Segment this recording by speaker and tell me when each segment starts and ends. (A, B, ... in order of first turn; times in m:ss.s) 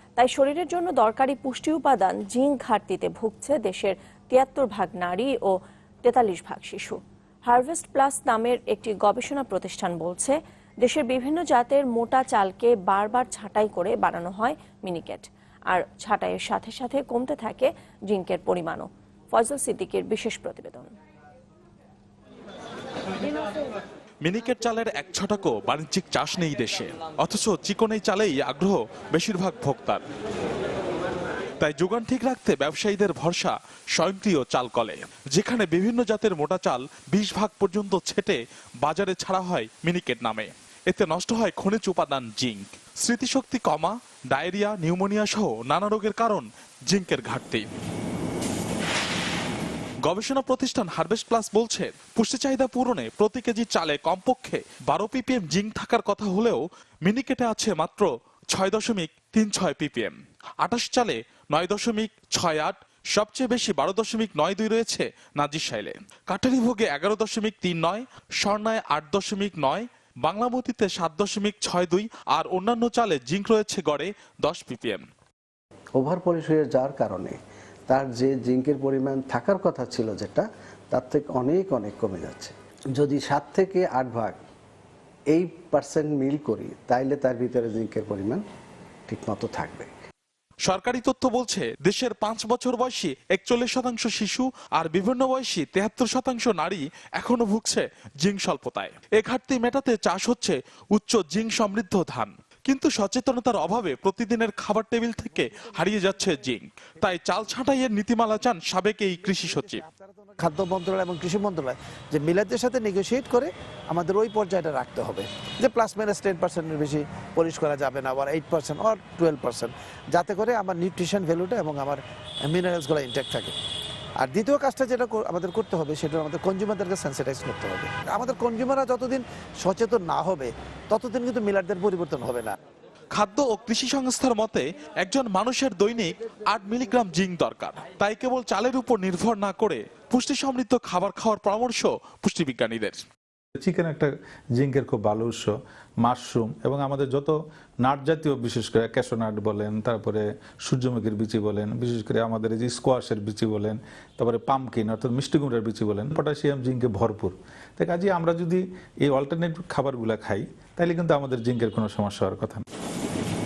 0:00.2-0:20.9 A
0:24.2-0:30.0 B
0:31.6-0:47.7 B
0:50.0-1:15.0 B
1:16.0-1:24.4 C
1:25.3-1:28.4 C
1:29.1-1:29.9 C
1:30.6-1:49.8 B
1:49.2-2:03.5 D
2:04.2-2:12.6 D
2:13.2-2:23.0 B
2:23.6-2:42.6 E